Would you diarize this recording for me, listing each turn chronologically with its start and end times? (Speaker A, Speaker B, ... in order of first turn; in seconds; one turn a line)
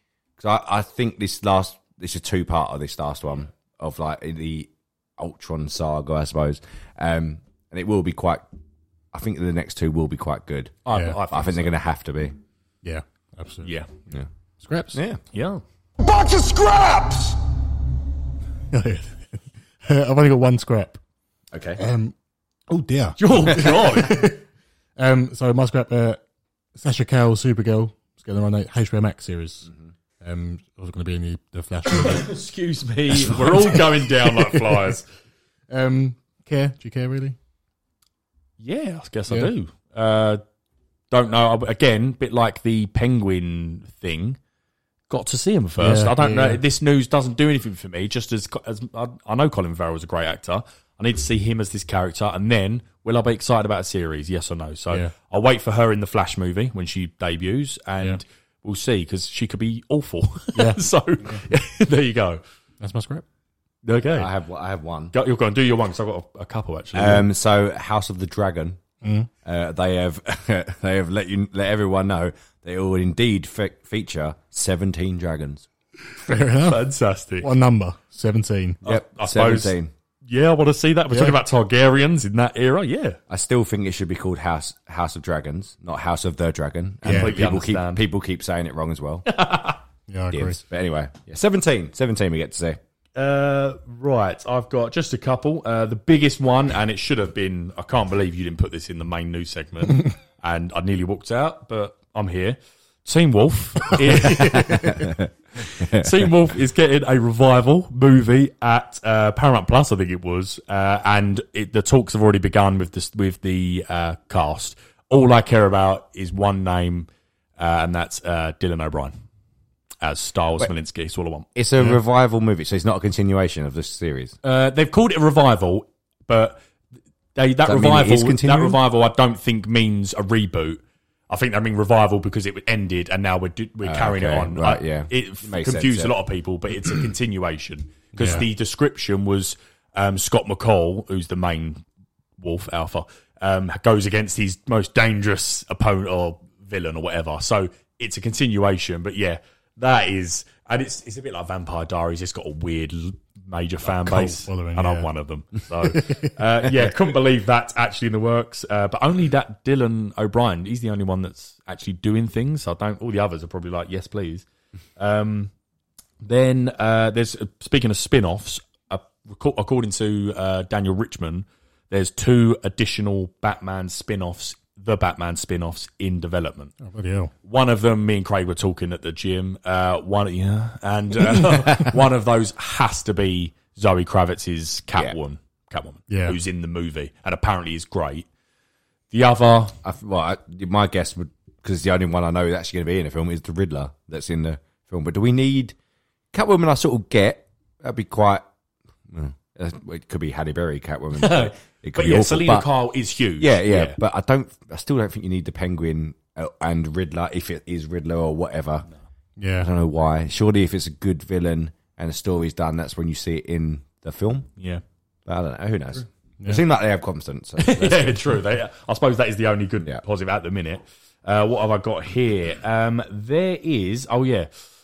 Speaker A: 0.4-8.4
Speaker A: 9.1-10.8
Speaker B: 10.8-11.7
Speaker C: 10.9-11.2
Speaker A: 11.3-12.3
Speaker C: 12.8-13.7
Speaker B: 13.6-13.9
Speaker C: 14.6-14.9
Speaker A: 14.9-15.2
Speaker B: 15.3-15.6
Speaker C: 16.0-17.4
Speaker C: 18.7-21.0
Speaker A: 21.5-21.8
Speaker C: 21.8-22.1
Speaker C: 22.7-24.4
Speaker B: 23.2-24.3
Speaker C: 25.0-26.2
Speaker C: 26.8-29.7
Speaker C: 30.2-32.4
Speaker B: 31.9-35.0
Speaker C: 33.3-34.9
Speaker C: 35.7-37.4
Speaker B: 38.6-40.4
Speaker B: 41.1-44.4
Speaker B: 45.1-62.4
Speaker C: 45.8-46.6
Speaker C: 60.5-61.4
Speaker C: 62.8-63.2
Speaker B: 63.8-64.3
Speaker A: 64.1-65.1
Speaker B: 65.1-67.2
Speaker A: 66.9-68.8
Speaker C: 69.0-69.3
Speaker A: 69.4-75.7
Speaker C: 76.1-76.8
Speaker B: 76.6-77.5
Speaker C: 77.4-78.8
Speaker B: 78.8-79.7
Speaker A: 78.8-79.9
Speaker B: 80.3-83.2
Speaker C: 81.1-81.4
Speaker A: 83.3-89.3
Speaker C: 87.0-87.3
Speaker B: 87.0-88.0
Speaker B: 89.3-89.8
Speaker C: 90.1-90.6
Speaker A: 90.3-92.8
Speaker B: 93.2-119.1
Speaker A: 104.6-105.3
Speaker A: 105.8-106.3
Speaker B: 120.0-121.5
Speaker A: 121.5-124.3
Speaker B: 124.4-126.6
Speaker B: 127.3-141.8
Speaker A: 127.6-128.8
Speaker A: 133.8-136.1
Speaker C: 138.2-138.4
Speaker B: 142.4-164.4
Speaker C: 153.8-155.1
Speaker C: 155.9-156.3
Speaker B: 165.0-165.5
Speaker B: 166.2-176.8
Speaker C: 176.8-177.3
Speaker B: 177.4-188.3
Speaker C: 186.1-186.4
Speaker B: 189.1-189.8
Speaker A: 189.8-195.7
Speaker A: 196.3-198.4
Speaker A: 199.1-202.7
Speaker B: 201.1-204.0
Speaker A: 203.4-208.8
Speaker C: 209.4-209.7
Speaker A: 209.6-214.5
Speaker B: 214.6-214.8
Speaker A: 215.2-218.2
Speaker B: 217.6-224.5